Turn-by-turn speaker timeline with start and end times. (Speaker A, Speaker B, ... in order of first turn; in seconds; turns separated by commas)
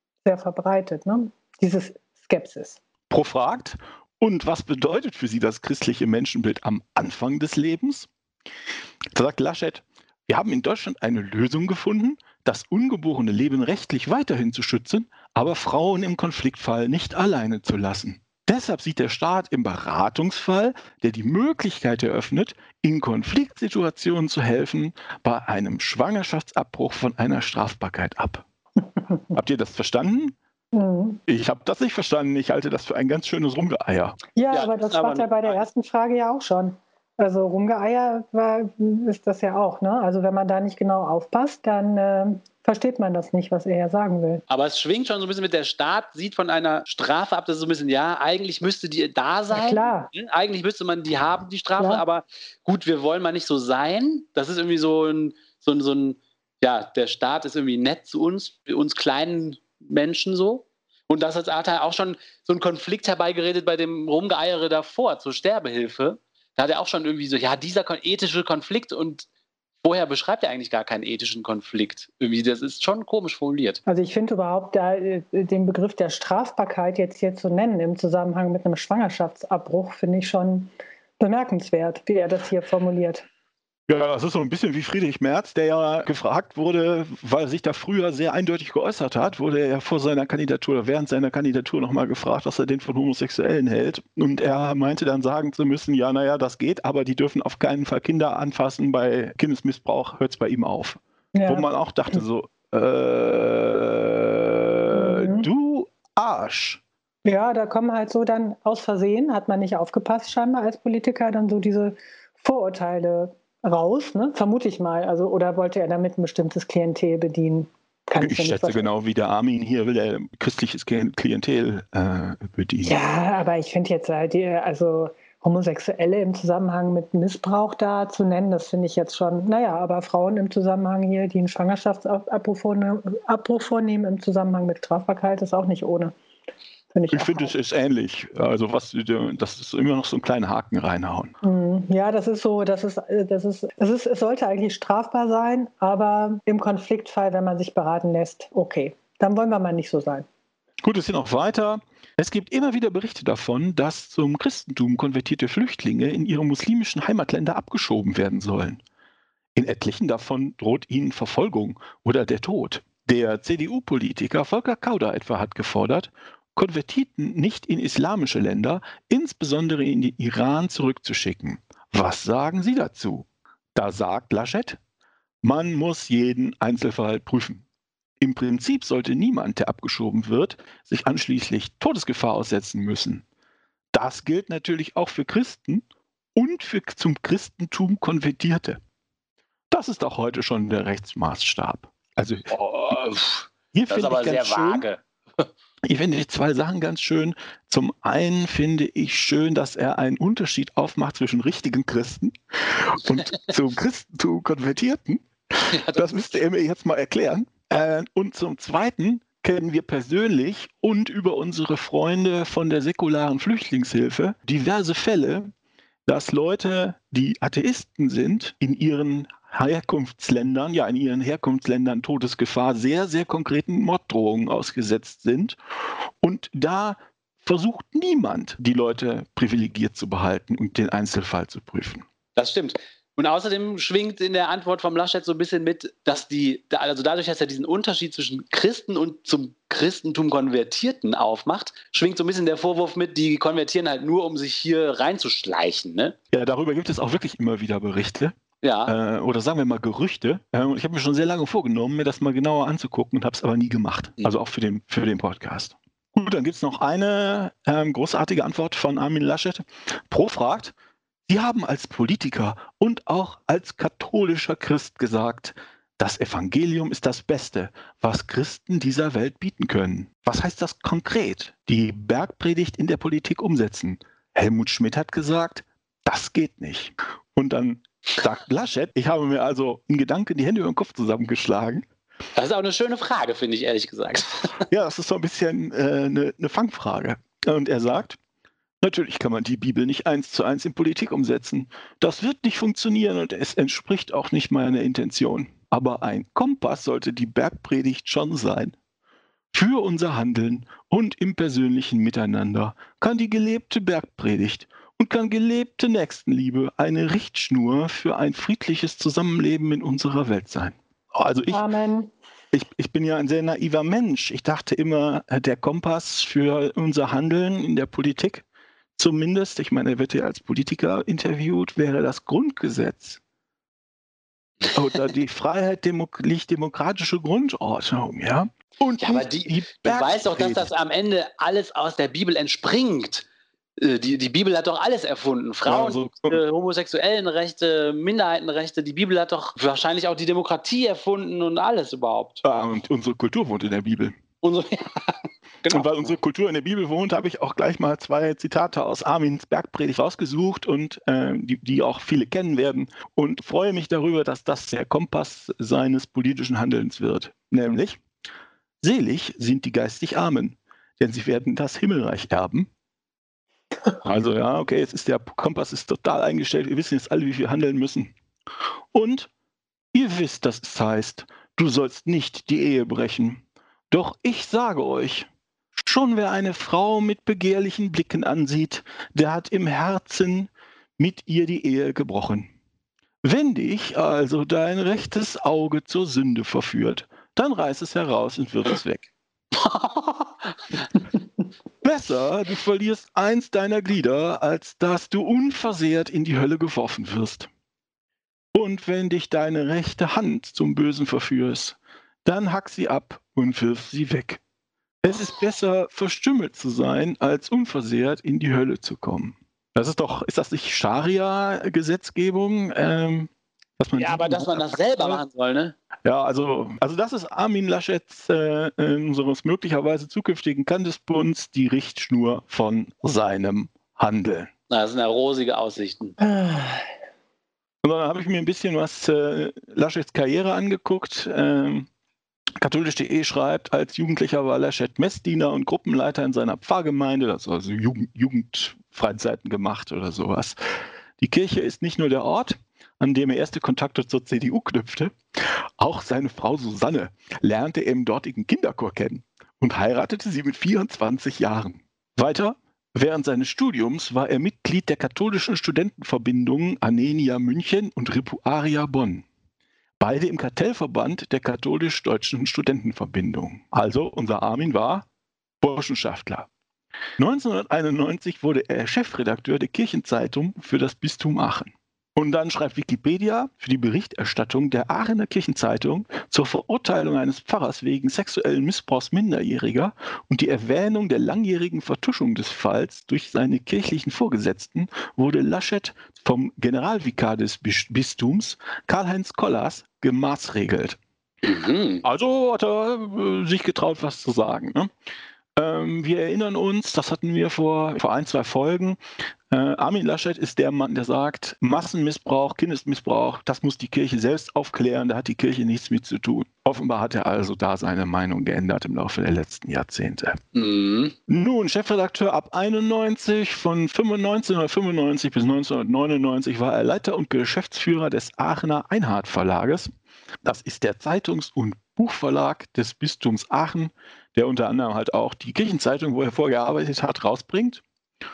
Speaker A: 0.2-2.8, Speaker B: 3.1-8.1, Speaker B: 9.1-28.4, Speaker B: 29.3-30.3, Speaker A: 30.7-31.2, Speaker B: 31.3-34.2, Speaker A: 34.4-44.4, Speaker C: 34.5-35.6, Speaker C: 44.5-69.2, Speaker A: 49.5-50.1, Speaker A: 51.8-52.0, Speaker C: 69.8-73.8, Speaker A: 73.8-83.3, Speaker B: 83.9-106.8, Speaker A: 101.3-102.2, Speaker A: 104.9-105.5, Speaker A: 107.2-118.9, Speaker B: 118.2-123.0, Speaker A: 122.8-136.1, Speaker A: 136.9-137.5, Speaker B: 137.1-141.3, Speaker A: 141.4-150.2, Speaker B: 150.8-158.8, Speaker B: 159.5-174.8, Speaker B: 175.4-177.6, Speaker B: 178.2-183.2, Speaker B: 183.9-185.8, Speaker B: 186.3-188.8, Speaker B: 189.7-193.0, Speaker C: 192.9-195.5, Speaker B: 193.7-194.9, Speaker B: 195.8-215.5, Speaker C: 205.7-206.3, Speaker B: 216.1-225.6, Speaker B: 226.2-232.0, Speaker C: 232.3-246.2, Speaker B: 246.3-248.3, Speaker C: 248.6-248.9, Speaker B: 248.8-260.7, Speaker B: 261.3-281.9, Speaker C: 282.4-284.6, Speaker B: 284.7-288.2, Speaker B: 288.8-298.8, Speaker B: 299.5-311.6, Speaker A: 311.5-312.1, Speaker B: 312.5-318.4, Speaker B: 319.0-323.2, Speaker B: 324.7-330.7, Speaker C: 329.0-333.2, Speaker C: 333.8-342.4, Speaker B: 335.6-336.4, Speaker B: 342.4-344.1, Speaker C: 344.4-346.1, Speaker B: 345.7-358.0, Speaker B: 358.8-362.7, Speaker B: 364.0-368.1, Speaker B: 368.9-369.3, Speaker B: 369.9-382.5, Speaker B: 383.2-389.1, Speaker C: 389.5-390.8, Speaker B: 391.8-397.5, Speaker B: 398.5-404.4, Speaker B: 405.0-415.2, Speaker C: 413.9-415.7, Speaker B: 416.0-424.5, Speaker C: 424.7-426.2, Speaker A: 426.2-426.8, Speaker B: 427.8-431.9, Speaker B: 432.6-440.6, Speaker B: 441.2-459.2, Speaker B: 460.0-465.1, Speaker B: 465.6-466.5, Speaker B: 467.2-491.0, Speaker C: 491.4-492.0, Speaker B: 492.0-494.9, Speaker B: 495.6-510.4, Speaker C: 510.5-511.1, Speaker B: 511.3-519.9, Speaker B: 520.4-527.8